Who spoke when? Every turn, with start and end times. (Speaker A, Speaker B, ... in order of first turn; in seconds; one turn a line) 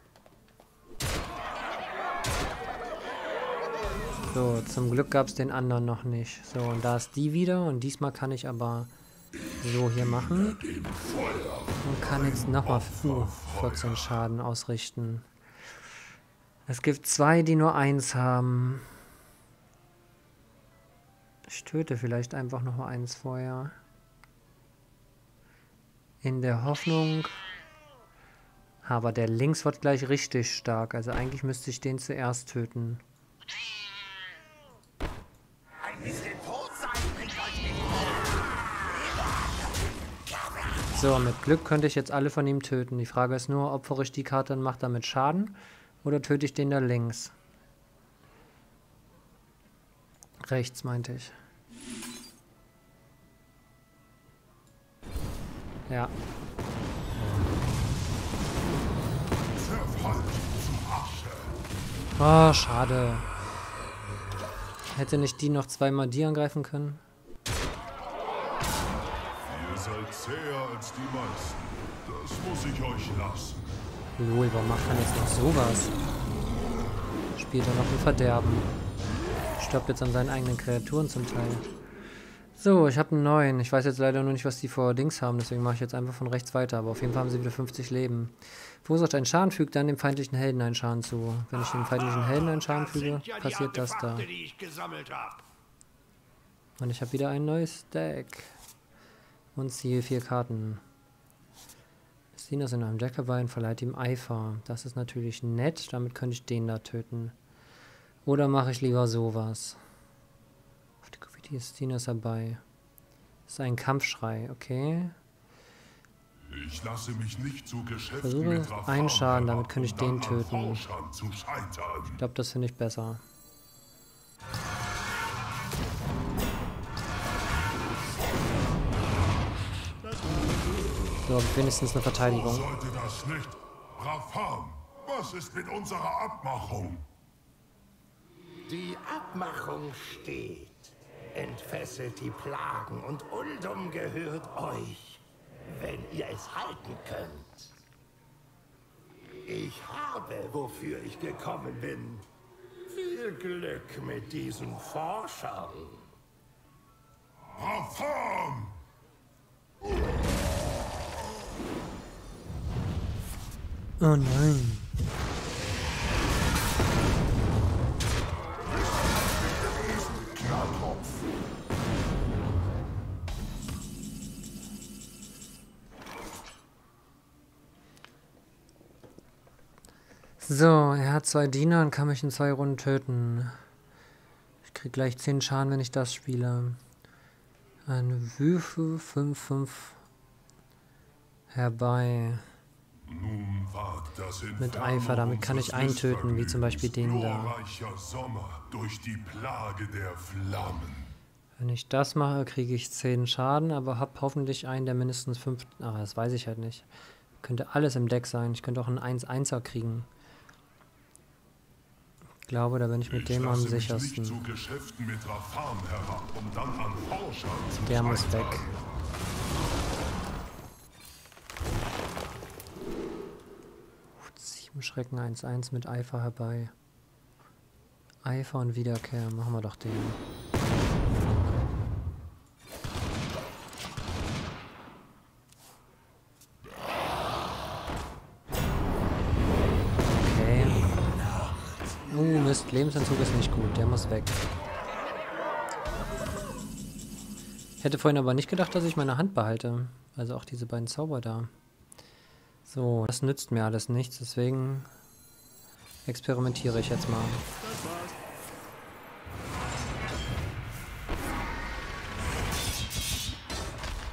Speaker A: 4.3-8.9
Speaker A: 9.6-10.6
Speaker B: 10.8-14.2
Speaker A: 11.8-15.3
Speaker A: 16.6-19.0
Speaker A: 21.4-23.8
Speaker A: 26.2-27.3
Speaker A: 28.8-33.0
Speaker C: 35.9-37.9
Speaker A: 40.9-47.3
Speaker A: 50.4-51.3
Speaker A: 55.9-56.1
Speaker B: 59.5-61.5
Speaker A: 62.2-63.3
Speaker A: 64.9-67.0
Speaker B: 69.4-73.8
Speaker A: 74.2-75.9
Speaker A: 77.3-78.7
Speaker A: 79.6-81.7
Speaker A: 82.6-94.3
Speaker A: 96.8-98.5
Speaker A: 99.5-100.8
Speaker A: 102.3-107.3
Speaker A: 108.2-109.8
Speaker A: 111.0-112.6
Speaker A: 113.5-115.2
Speaker B: 116.5-122.2
Speaker A: 118.2-120.8
Speaker A: 122.2-123.2
Speaker A: 131.2-132.7
Speaker B: 132.2-137.1
Speaker C: 138.7-147.7
Speaker C: 149.4-152.2
Speaker C: 152.9-156.0
Speaker B: 157.5-158.8
Speaker A: 164.0-164.9
Speaker A: 180.4-183.6
Speaker A: 184.6-186.8
Speaker A: 187.8-190.0
Speaker A: 191.5-192.5
Speaker B: 193.1-201.1
Speaker A: 194.6-197.5
Speaker A: 201.6-206.9
Speaker A: 207.4-210.1
Speaker A: 212.5-214.4
Speaker B: 213.1-218.7
Speaker A: 217.8-218.7
Speaker A: 224.2-226.7
Speaker A: 228.2-230.2
Speaker A: 240.0-240.9
Speaker A: 242.1-244.4
Speaker A: 247.8-251.5
Speaker A: 252.7-254.9
Speaker A: 256.0-257.4